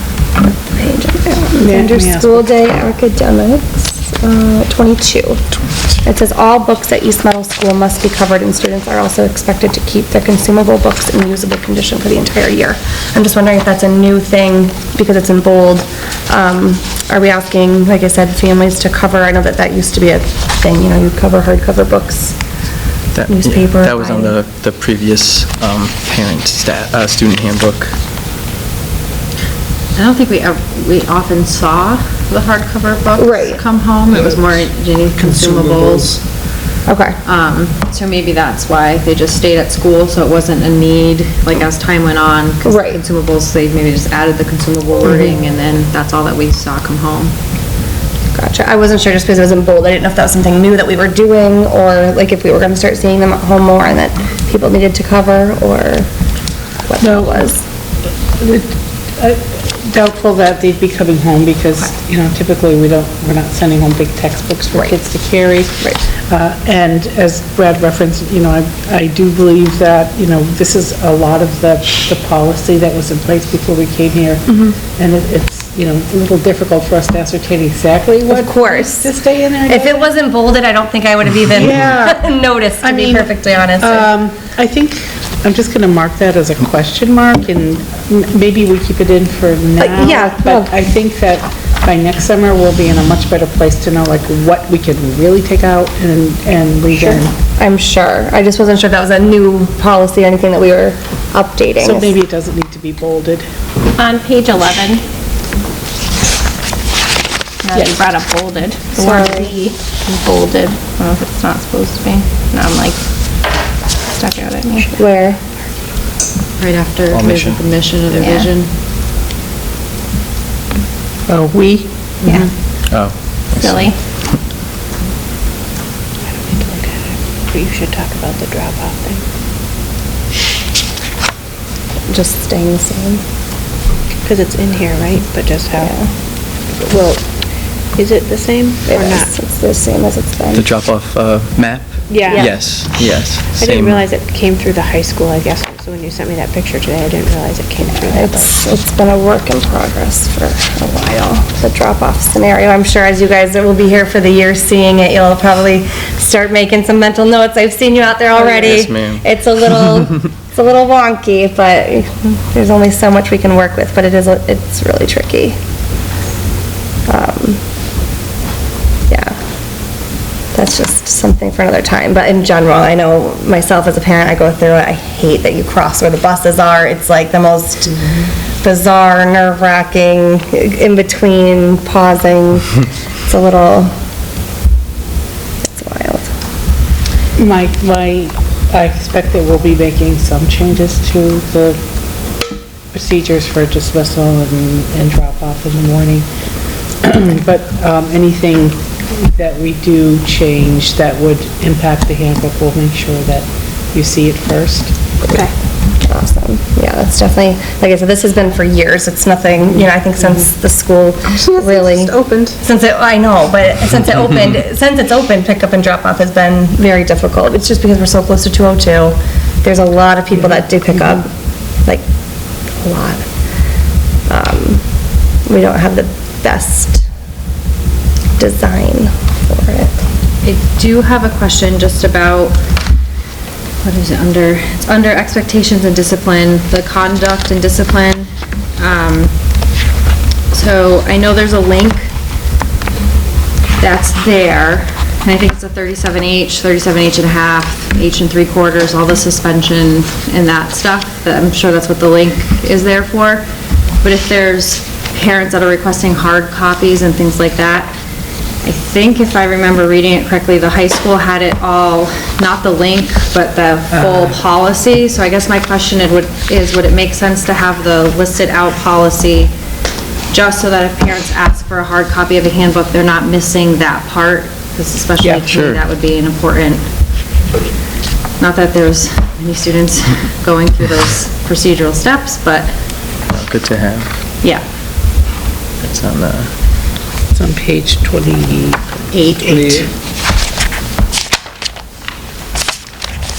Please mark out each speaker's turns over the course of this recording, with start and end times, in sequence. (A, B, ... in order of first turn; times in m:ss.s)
0:00.4-0:05.4 A
0:01.6-0:02.5 B
0:06.0-0:22.4 A
0:23.1-0:27.9 C
0:23.2-0:24.4 A
0:30.0-0:36.2 D
0:33.2-0:33.6 A
0:36.8-0:37.2 A
0:37.2-0:47.3 D
0:42.6-0:43.0 A
0:45.0-0:45.3 A
0:48.3-0:56.1 A
0:56.9-0:57.6 A
0:57.0-0:57.5 B
0:58.4-1:20.1 B
1:18.3-1:19.1 A
1:19.7-1:24.1 A
1:21.5-1:22.3 B
1:22.8-1:37.3 B
1:29.8-1:30.7 A
1:37.0-1:42.1 A
1:41.8-1:43.4 B
1:44.0-1:45.0 E
1:47.6-1:53.0 E
1:49.0-1:49.5 A
1:54.2-1:54.9 E
1:55.0-1:55.4 A
1:56.6-1:58.7 D
1:57.1-1:57.6 C
1:58.1-1:58.5 E
2:01.3-2:02.3 B
2:02.9-2:03.7 C
2:03.5-2:04.0 E
2:06.3-2:09.2 F
2:12.1-2:13.2 A
2:14.2-2:15.9 F
2:15.8-2:16.1 A
2:16.7-2:17.2 F
2:18.0-2:19.3 F
2:18.8-2:20.7 A
2:20.6-2:24.0 C
2:22.1-2:22.6 F
2:22.2-2:22.5 A
2:23.4-2:28.5 F
2:27.9-2:45.6 A
2:38.5-2:39.2 C
2:47.1-2:47.6 A
2:49.1-2:49.4 A
2:50.5-3:02.7 A
3:03.2-3:03.9 A
3:05.6-3:06.3 A
3:07.4-3:11.8 B
3:12.9-3:16.2 B
3:17.0-3:24.9 B
3:26.0-3:41.3 A
3:31.6-3:32.5 F
3:42.8-3:43.2 A
3:44.3-3:44.8 A
3:45.4-3:47.0 A
3:48.4-3:49.9 A
3:50.4-3:52.6 D
3:53.8-3:59.3 D
4:00.5-4:02.1 D
4:03.8-4:13.4 D
4:14.0-4:17.9 D
4:18.6-4:29.5 D
4:30.3-4:36.8 D
4:35.5-4:35.8 C
4:38.4-4:42.7 D
4:43.3-4:44.1 C
4:45.8-4:46.5 C
4:47.3-4:49.9 B